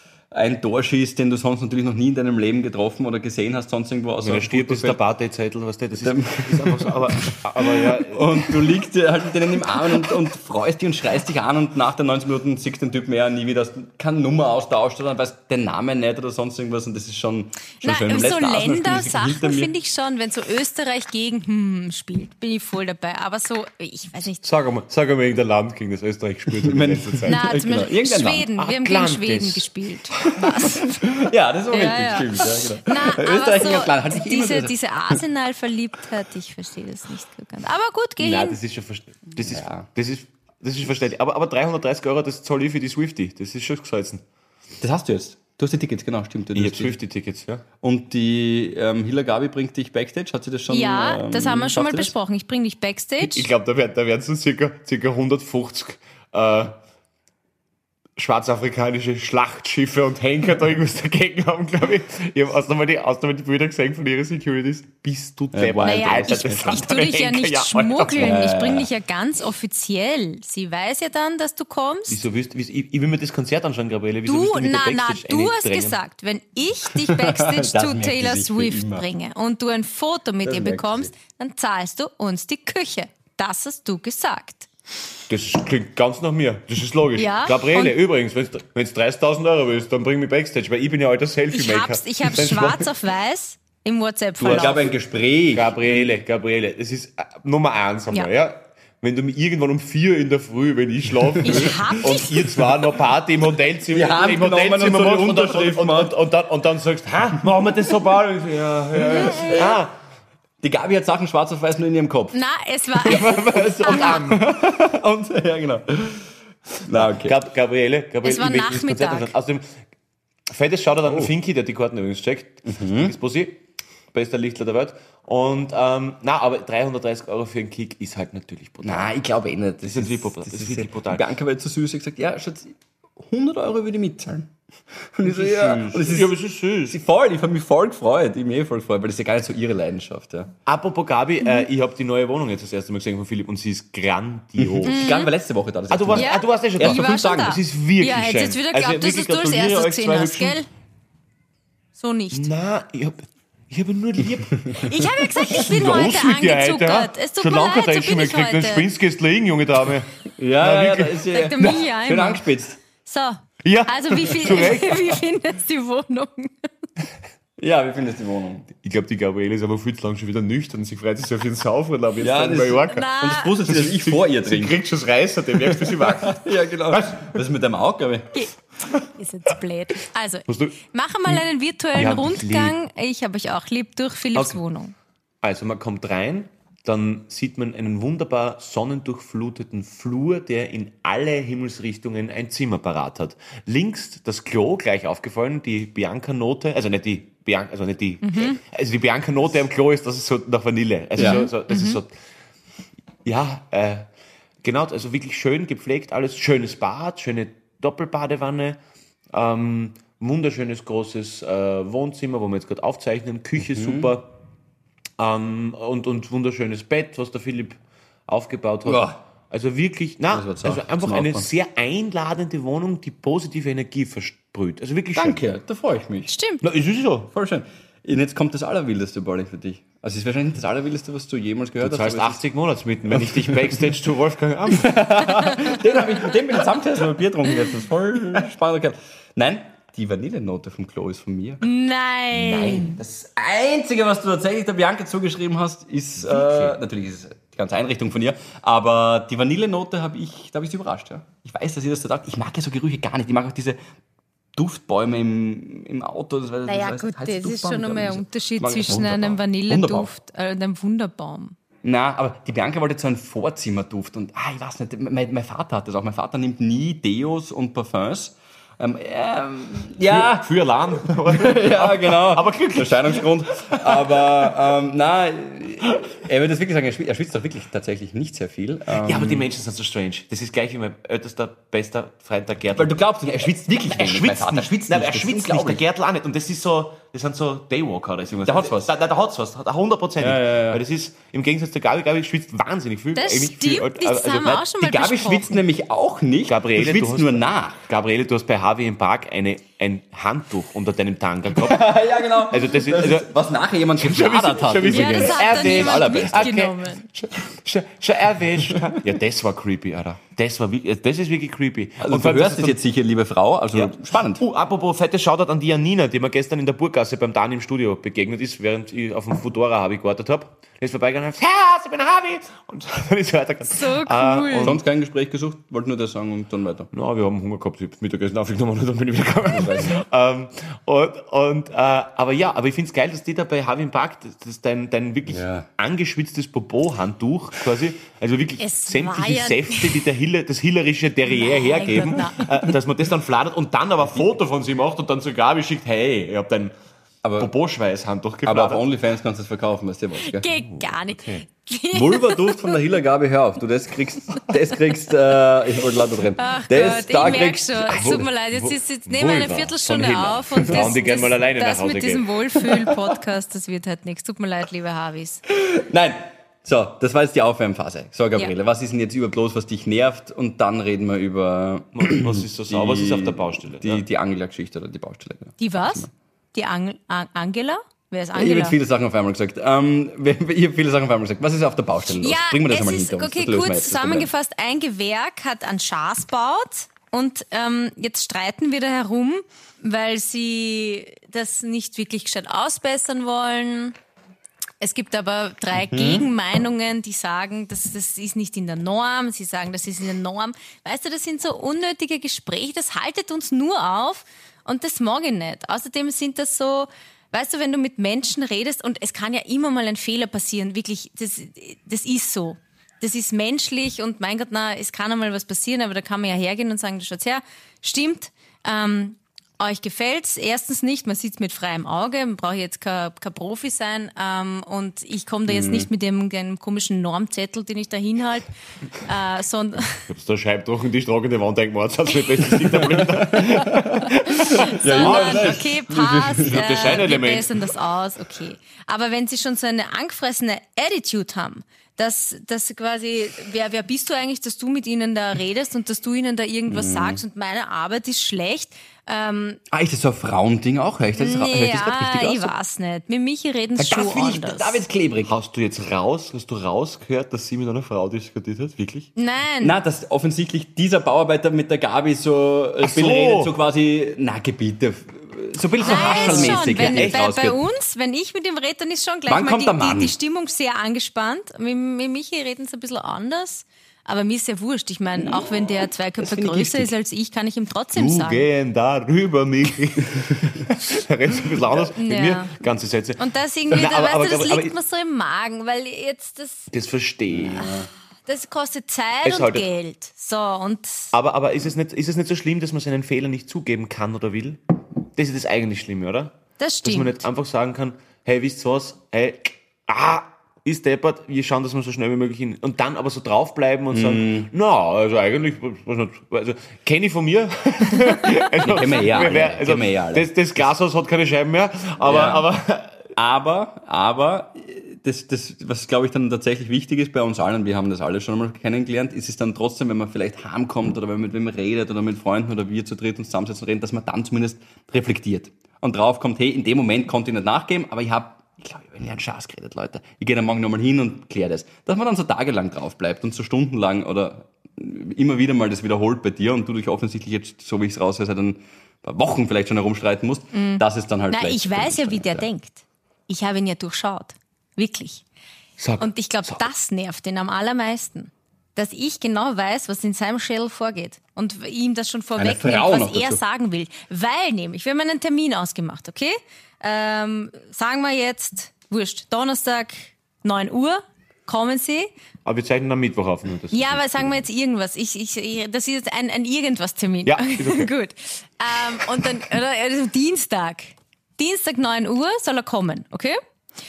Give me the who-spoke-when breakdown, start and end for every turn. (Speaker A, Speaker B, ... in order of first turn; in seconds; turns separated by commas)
Speaker A: 0.3-5.0, Speaker B: 4.2-8.8, Speaker A: 6.0-19.7, Speaker C: 17.8-24.4, Speaker B: 24.4-27.4, Speaker A: 26.5-28.5, Speaker C: 27.2-38.6, Speaker B: 28.6-30.4, Speaker A: 30.7-35.2, Speaker B: 38.2-44.2, Speaker A: 39.5-39.9, Speaker A: 44.8-47.0, Speaker B: 46.5-47.6, Speaker A: 47.8-52.1, Speaker C: 50.7-53.5, Speaker B: 53.2-56.8, Speaker B: 58.2-68.4, Speaker A: 65.5-66.8, Speaker C: 65.8-72.2, Speaker A: 68.2-68.9, Speaker B: 72.1-76.0, Speaker C: 74.2-84.7, Speaker A: 76.9-79.1, Speaker A: 80.4-81.1, Speaker B: 85.3-92.9, Speaker C: 87.2-88.0, Speaker C: 91.5-94.9, Speaker A: 94.4-96.1, Speaker B: 95.5-109.9, Speaker A: 101.3-101.9, Speaker C: 101.4-102.6, Speaker A: 103.9-106.2, Speaker A: 109.1-109.8, Speaker C: 109.2-109.5, Speaker A: 110.6-112.4, Speaker C: 112.3-114.2, Speaker A: 113.0-116.3, Speaker B: 113.1-114.4, Speaker A: 116.8-117.4, Speaker B: 116.9-119.8, Speaker C: 118.2-119.3, Speaker B: 120.5-123.6, Speaker A: 121.0-121.3, Speaker A: 122.6-123.1, Speaker B: 124.1-129.1, Speaker A: 128.8-140.5, Speaker B: 129.8-131.2, Speaker B: 135.2-137.0, Speaker B: 140.7-145.1, Speaker A: 144.6-147.6, Speaker C: 144.9-145.3, Speaker B: 145.9-150.6, Speaker C: 146.1-150.7, Speaker C: 152.0-152.5, Speaker B: 152.3-161.8, Speaker C: 154.8-158.8, Speaker A: 160.4-162.8, Speaker C: 161.3-162.4, Speaker C: 163.0-166.6, Speaker B: 163.6-165.2, Speaker A: 167.6-168.7, Speaker B: 168.8-173.1, Speaker A: 172.2-174.8, Speaker C: 172.9-173.5, Speaker B: 173.6-177.4, Speaker A: 175.6-178.4, Speaker C: 178.3-184.9, Speaker B: 180.5-180.8, Speaker B: 181.9-182.8, Speaker B: 185.4-202.1, Speaker C: 198.2-198.6, Speaker A: 201.2-201.4, Speaker C: 201.2-202.0, Speaker B: 203.2-204.1, Speaker B: 204.6-208.8, Speaker B: 209.3-214.3, Speaker A: 213.7-214.1, Speaker B: 215.2-225.4, Speaker A: 218.8-219.2, Speaker A: 220.3-221.5, Speaker A: 225.1-226.3, Speaker C: 226.3-226.6, Speaker B: 226.6-227.3, Speaker A: 227.3-232.4, Speaker B: 231.8-235.1, Speaker A: 233.1-233.8, Speaker A: 234.7-241.6, Speaker C: 241.6-243.0, Speaker B: 242.4-243.0, Speaker A: 242.4-253.8, Speaker B: 246.3-246.8, Speaker A: 254.5-260.1, Speaker C: 256.6-261.6, Speaker A: 261.8-270.5, Speaker B: 270.1-274.5, Speaker A: 271.1-279.5, Speaker B: 279.0-282.9, Speaker A: 282.8-285.8, Speaker B: 283.9-294.6, Speaker A: 288.4-288.9, Speaker A: 290.2-290.8, Speaker C: 293.1-295.6, Speaker A: 294.6-297.8, Speaker B: 296.5-303.3, Speaker A: 301.5-306.6, Speaker B: 304.0-312.8, Speaker C: 304.9-307.0, Speaker A: 312.0-314.4, Speaker B: 313.7-324.8, Speaker C: 323.7-324.8, Speaker A: 324.6-326.9, Speaker B: 326.9-346.8, Speaker A: 329.5-330.0, Speaker A: 335.3-335.7, Speaker C: 338.6-340.1, Speaker C: 341.3-342.5, Speaker A: 347.2-347.5, Speaker B: 347.4-348.8, Speaker A: 348.4-350.5, Speaker C: 350.2-352.8, Speaker B: 350.6-351.4, Speaker A: 351.9-358.3, Speaker C: 356.4-365.4, Speaker B: 357.9-362.4, Speaker A: 365.5-376.1, Speaker B: 371.9-374.0, Speaker C: 375.6-378.8, Speaker A: 378.3-384.3, Speaker C: 382.2-393.9, Speaker C: 394.8-430.1, Speaker A: 395.8-396.3, Speaker A: 425.5-425.9, Speaker B: 430.1-435.7, Speaker A: 432.5-437.0, Speaker C: 434.4-449.6, Speaker B: 436.4-437.5, Speaker A: 446.7-447.2, Speaker A: 449.7-452.5, Speaker C: 451.2-454.8, Speaker A: 453.8-455.3, Speaker B: 455.2-459.1, Speaker C: 459.2-459.8, Speaker A: 459.6-467.6, Speaker B: 462.8-463.5, Speaker C: 465.8-478.4, Speaker B: 465.8-467.2, Speaker A: 469.3-470.1, Speaker A: 475.2-476.9, Speaker B: 477.9-484.8, Speaker C: 481.9-482.5, Speaker C: 483.2-486.7, Speaker B: 486.7-487.7, Speaker A: 487.3-487.9, Speaker C: 488.3-491.1, Speaker B: 489.2-489.7, Speaker B: 491.1-494.6, Speaker B: 495.1-513.1, Speaker C: 496.6-497.2, Speaker A: 503.9-504.5, Speaker A: 508.6-510.3, Speaker A: 512.0-512.5, Speaker A: 513.1-542.5, Speaker C: 540.5-545.2, Speaker B: 545.8-546.7, Speaker C: 546.0-562.1, Speaker A: 552.4-553.4, Speaker B: 562.4-564.4, Speaker C: 563.7-573.4, Speaker B: 567.2-567.9